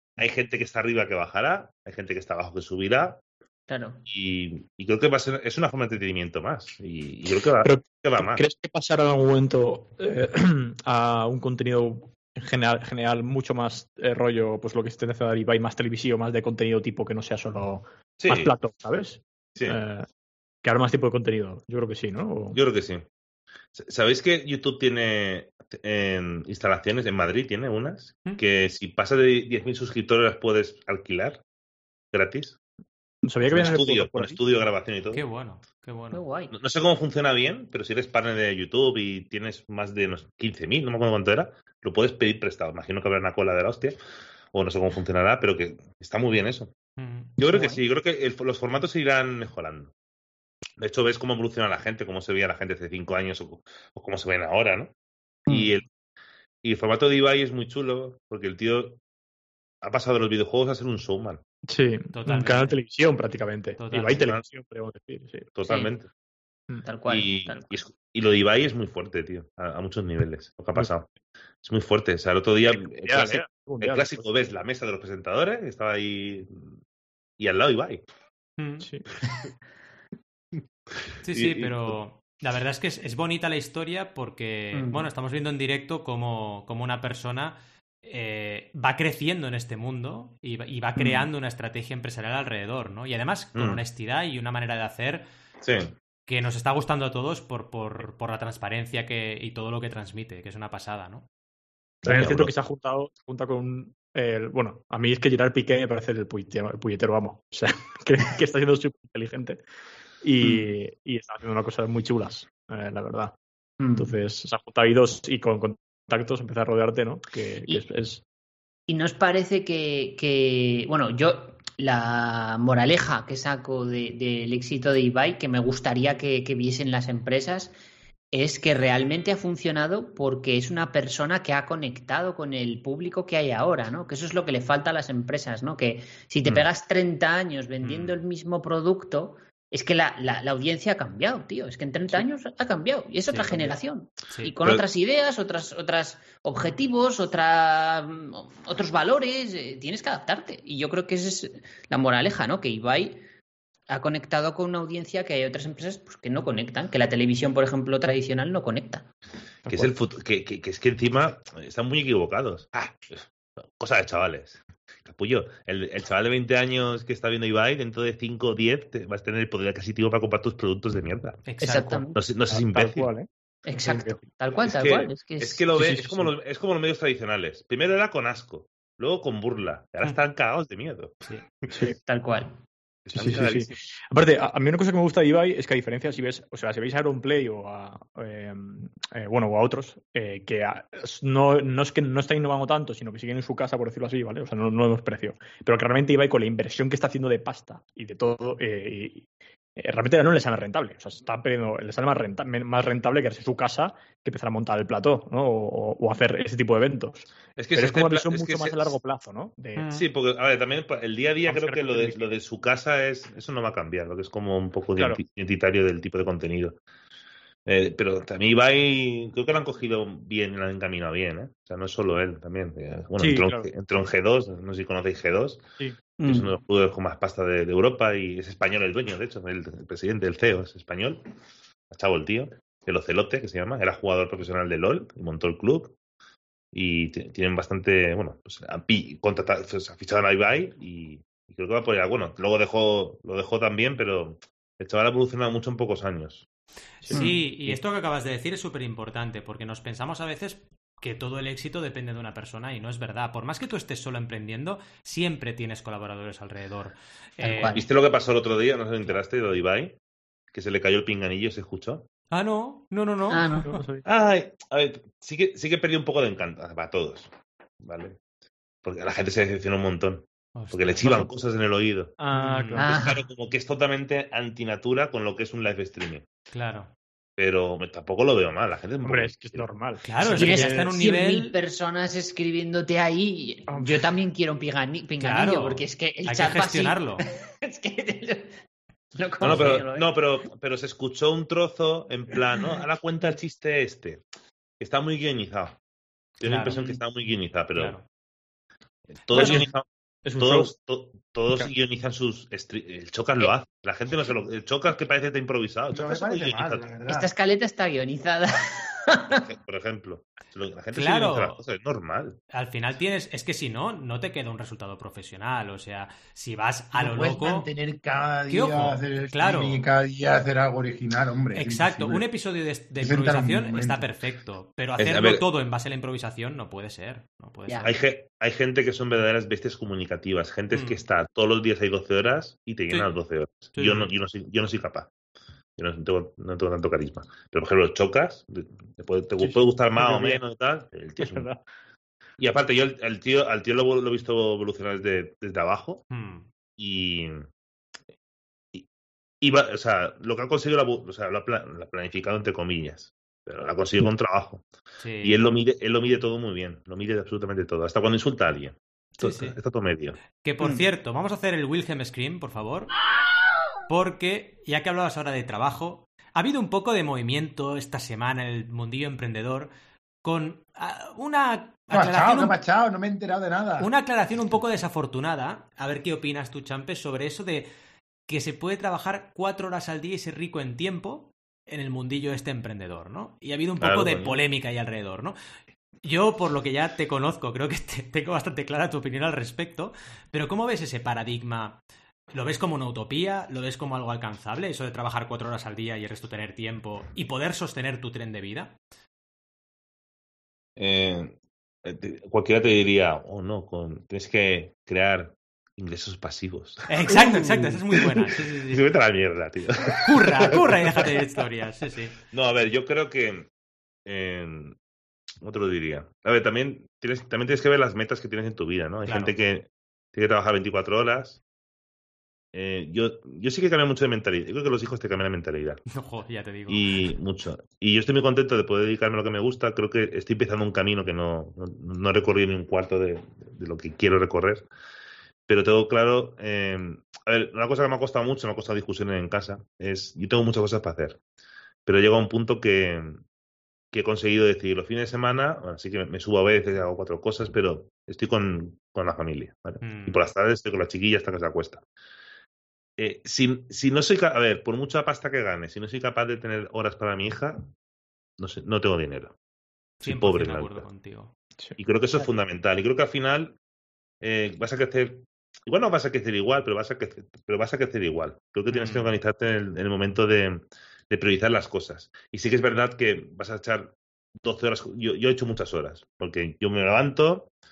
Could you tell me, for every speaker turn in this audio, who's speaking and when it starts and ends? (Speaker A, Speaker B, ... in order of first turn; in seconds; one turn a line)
Speaker A: 0.2-3.2
Speaker B: 3.7-4.0
Speaker A: 4.1-8.4
Speaker C: 7.6-20.1
Speaker A: 18.2-18.5
Speaker C: 20.6-22.6
Speaker A: 22.5-23.1
Speaker A: 23.8-31.4
Speaker A: 32.1-32.6
Speaker C: 33.2-34.4
Speaker A: 33.5-35.2
Speaker D: 35.1-36.2
Speaker B: 36.1-36.5
Speaker A: 36.5-44.0
Speaker A: 44.5-46.7
Speaker D: 47.0-47.3
Speaker A: 47.4-49.9
Speaker B: 47.5-47.8
Speaker A: 50.8-54.9
Speaker B: 55.5-55.8
Speaker A: 55.5-55.9
Speaker A: 56.6-59.0
Speaker A: 59.8-61.4
Speaker C: 61.7-65.5
Speaker D: 62.1-62.8
Speaker D: 63.8-64.2
Speaker A: 64.1-64.4
Speaker A: 65.6-66.1
Speaker B: 65.7-65.9
Speaker B: 66.8-67.8
Speaker A: 67.1-71.1
Speaker A: 71.6-76.8
Speaker C: 72.7-74.3
Speaker A: 77.4-78.0
Speaker D: 78.6-78.9
Speaker D: 81.2-95.2
Speaker A: 81.3-82.0
Speaker B: 84.7-85.1
Speaker A: 93.5-93.8
Speaker A: 95.6-95.9
Speaker D: 96.3-101.3
Speaker A: 102.0-102.5
Speaker C: 102.1-109.6
Speaker C: 110.2-113.3
Speaker B: 113.8-114.1
Speaker C: 114.0-118.2
Speaker B: 118.9-127.8
Speaker B: 128.3-153.2
Speaker D: 137.8-138.2
Speaker D: 143.3-143.6
Speaker D: 144.3-144.5
Speaker B: 153.9-159.1
Speaker C: 159.7-159.9
Speaker A: 159.7-163.3
Speaker A: 163.8-171.4
Speaker D: 171.5-172.1
Speaker B: 171.6-172.2
Speaker A: 172.2-173.1
Speaker C: 172.5-174.3
Speaker B: 173.7-175.8
Speaker A: 174.6-181.7
Speaker C: 175.8-176.3
Speaker C: 181.7-182.0
Speaker B: 182.1-182.6
Speaker A: 183.1-183.8
Speaker C: 183.2-209.9
Speaker A: 207.6-208.9
Speaker D: 209.8-210.1
Speaker A: 209.9-216.8
Speaker C: 211.5-212.3
Speaker A: 217.7-225.6
Speaker C: 223.2-223.7
Speaker C: 225.8-226.5
Speaker A: 226.2-231.2
Speaker A: 231.9-235.9
Speaker A: 236.7-246.5
Speaker C: 247.0-247.8
Speaker D: 247.1-257.8
Speaker B: 247.1-247.4
Speaker B: 257.4-257.9
Speaker A: 257.7-260.0
Speaker A: 260.5-262.1
Speaker D: 262.3-263.8
Speaker B: 263.3-263.7
Speaker C: 263.6-264.0
Speaker A: 264.1-267.3
Speaker A: 267.8-268.2
Speaker A: 268.8-272.1
Speaker D: 270.6-271.3
Speaker C: 272.2-273.0
Speaker D: 272.3-272.8
Speaker B: 272.8-273.2
Speaker A: 272.8-276.2
Speaker D: 276.5-276.9
Speaker A: 277.4-279.7
Speaker C: 279.0-280.9
Speaker D: 280.0-281.6
Speaker B: 280.4-288.6
Speaker C: 283.7-284.0
Speaker D: 285.2-287.2
Speaker B: 289.1-290.1
Speaker A: 289.4-294.2
Speaker A: 294.8-295.8
Speaker A: 296.4-298.0
Speaker D: 296.4-296.8
Speaker B: 296.7-297.0
Speaker D: 297.8-298.0
Speaker A: 299.2-306.9
Speaker C: 299.3-299.7
Speaker C: 300.2-300.7
Speaker E: 305.9-307.3
Speaker B: 307.1-309.5
Speaker A: 309.5-312.4
Speaker D: 310.9-311.6
Speaker D: 312.5-317.7
Speaker E: 316.9-322.3
Speaker D: 318.5-319.9
Speaker D: 321.5-327.9
Speaker E: 323.0-324.1
Speaker A: 325.0-325.4
Speaker B: 327.7-327.9
Speaker A: 327.8-335.1
Speaker D: 330.7-331.0
Speaker D: 333.8-334.1
Speaker A: 335.8-341.5
Speaker C: 339.4-340.4
Speaker C: 341.2-341.6
Speaker A: 342.4-346.0
Speaker D: 346.1-346.5
Speaker A: 346.8-347.5
Speaker A: 349.4-354.6
Speaker D: 355.0-355.4
Speaker A: 355.2-360.2
Speaker D: 359.2-359.6
Speaker D: 360.4-362.9
Speaker D: 363.9-369.7
Speaker D: 370.2-372.6
Speaker E: 371.9-373.9
Speaker D: 373.8-377.7
Speaker D: 378.3-385.4
Speaker A: 383.8-384.4
Speaker D: 386.0-391.8
Speaker D: 392.3-398.8
Speaker A: 400.8-411.2
Speaker D: 406.9-408.8
Speaker D: 410.0-412.2
Speaker A: 412.3-413.5
Speaker A: 414.1-414.8
Speaker A: 415.4-421.4
Speaker D: 419.1-419.3
Speaker A: 422.5-425.8
Speaker D: 425.9-426.9
Speaker A: 426.7-434.7
Speaker A: 435.5-441.2
Speaker A: 441.9-443.2
Speaker A: 443.9-451.8
Speaker D: 449.8-450.2
Speaker A: 453.0-457.7
Speaker A: 458.4-459.3
Speaker D: 460.0-461.3
Speaker A: 460.0-460.9
Speaker A: 461.8-463.6
Speaker A: 464.2-477.5
Speaker D: 468.7-469.1